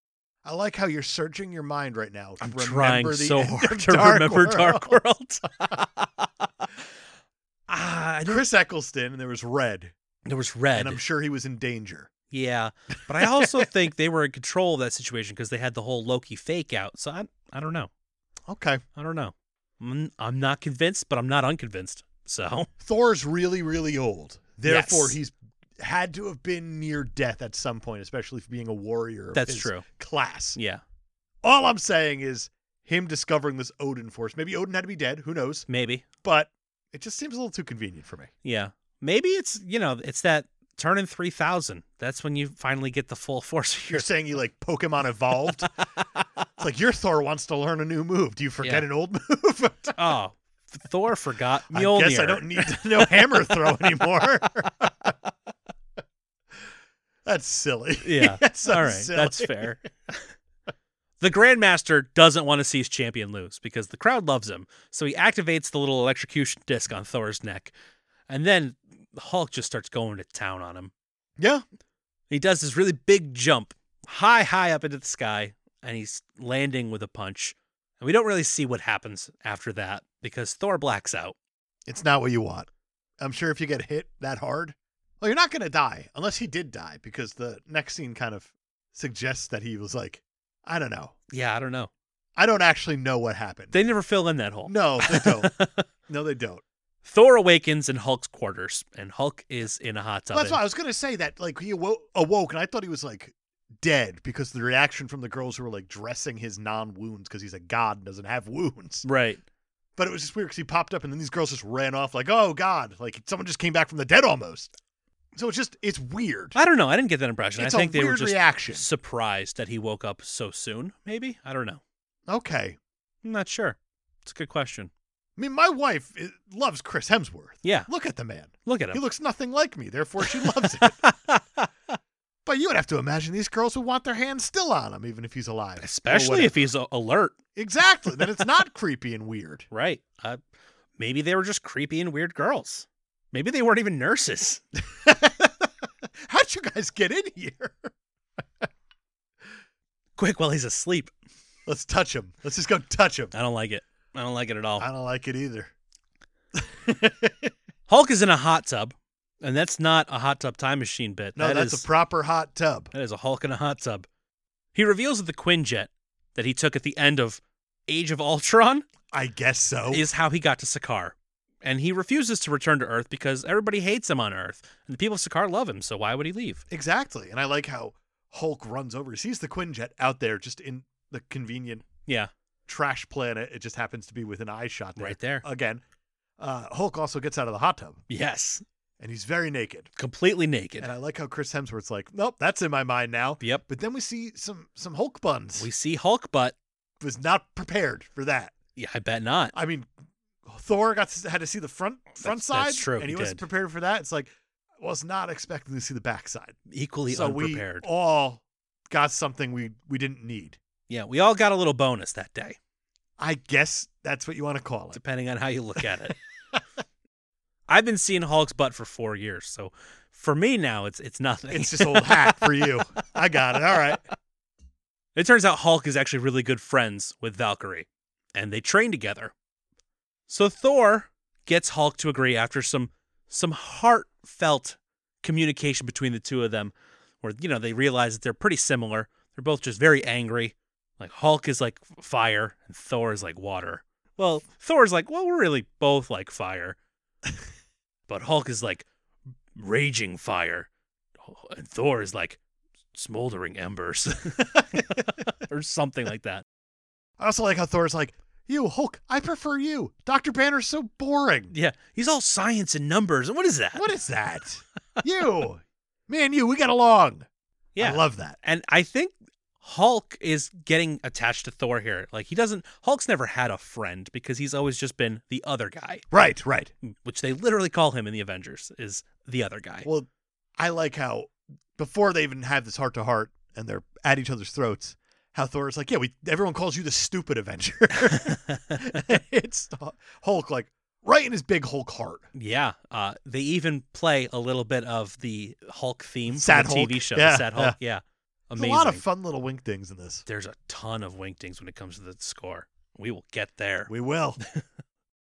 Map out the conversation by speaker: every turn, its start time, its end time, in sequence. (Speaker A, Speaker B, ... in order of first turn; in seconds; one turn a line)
Speaker A: 0.4-5.8
Speaker B: 2.4-5.8
Speaker B: 7.7-8.4
Speaker A: 8.3-9.9
Speaker B: 10.3-11.0
Speaker A: 10.8-12.1
Speaker B: 12.3-17.9
Speaker A: 13.2-13.7
Speaker A: 18.5-18.8
Speaker B: 19.0-22.7
Speaker A: 22.8-30.6
Speaker B: 24.7-25.2
Speaker B: 29.3-29.8
Speaker B: 30.6-30.8
Speaker A: 31.4-35.7
Speaker B: 35.7-36.1
Speaker A: 36.2-38.3
Speaker B: 38.4-44.1
Speaker A: 43.9-45.7
Speaker A: 46.6-50.0
Speaker B: 50.0-54.1
Speaker A: 51.7-55.1
Speaker A: 57.2-59.8
Speaker B: 58.0-60.3
Speaker B: 61.2-67.7
Speaker B: 68.3-70.9
Speaker A: 71.4-71.6
Speaker B: 72.3-81.4
Speaker A: 81.9-82.7
Speaker A: 83.2-91.2
Speaker B: 91.3-91.9
Speaker A: 92.4-93.8
Speaker B: 93.7-95.8
Speaker A: 94.7-95.5
Speaker A: 96.1-96.6
Speaker B: 97.0-100.6
Speaker A: 100.3-109.0
Speaker B: 109.0-109.4
Speaker A: 110.0-114.7
Speaker A: 115.3-116.6
Speaker B: 116.5-121.8
Speaker A: 117.6-118.9
Speaker A: 122.3-122.8
Speaker B: 123.2-124.9
Speaker A: 125.4-131.0
Speaker B: 127.6-127.9
Speaker B: 128.7-129.0
Speaker B: 130.2-131.7
Speaker A: 132.5-136.5
Speaker B: 135.8-137.4
Speaker A: 137.6-139.7
Speaker B: 139.7-140.4
Speaker B: 141.0-144.6
Speaker A: 144.9-145.7
Speaker A: 146.2-147.9
Speaker B: 150.2-151.1
Speaker A: 151.7-153.3
Speaker B: 153.3-154.9
Speaker A: 154.8-155.7
Speaker A: 156.6-157.5
Speaker B: 157.9-161.8
Speaker A: 161.4-162.9
Speaker B: 162.9-164.1
Speaker B: 164.7-168.9
Speaker A: 169.1-170.1
Speaker B: 169.9-176.6
Speaker A: 176.7-181.9
Speaker B: 182.1-182.3
Speaker A: 182.7-185.8
Speaker B: 185.0-185.4
Speaker A: 186.4-188.0
Speaker B: 188.1-188.6
Speaker A: 189.0-189.9
Speaker B: 190.0-190.9
Speaker A: 190.8-195.7
Speaker B: 195.6-196.6
Speaker A: 197.0-198.5
Speaker B: 198.8-199.5
Speaker A: 199.5-199.9
Speaker A: 200.4-206.6
Speaker B: 202.2-203.4
Speaker B: 206.7-207.9
Speaker A: 207.1-210.6
Speaker B: 210.9-212.6
Speaker A: 213.2-215.0
Speaker B: 214.9-216.2
Speaker B: 217.7-222.6
Speaker A: 221.5-224.0
Speaker B: 225.2-229.3
Speaker B: 230.3-246.8
Speaker B: 248.1-248.9
Speaker B: 249.6-250.7
Speaker B: 251.3-252.4
Speaker B: 252.9-256.4
Speaker A: 254.4-255.0
Speaker A: 257.2-261.5
Speaker B: 261.5-263.9
Speaker A: 263.8-267.3
Speaker B: 267.8-276.1
Speaker A: 267.8-268.4
Speaker A: 276.1-276.7
Speaker B: 276.8-279.9
Speaker A: 279.9-292.2
Speaker B: 288.1-289.0
Speaker B: 292.3-299.0
Speaker A: 296.3-297.8
Speaker A: 298.6-300.2
Speaker B: 300.3-304.6
Speaker A: 303.9-304.4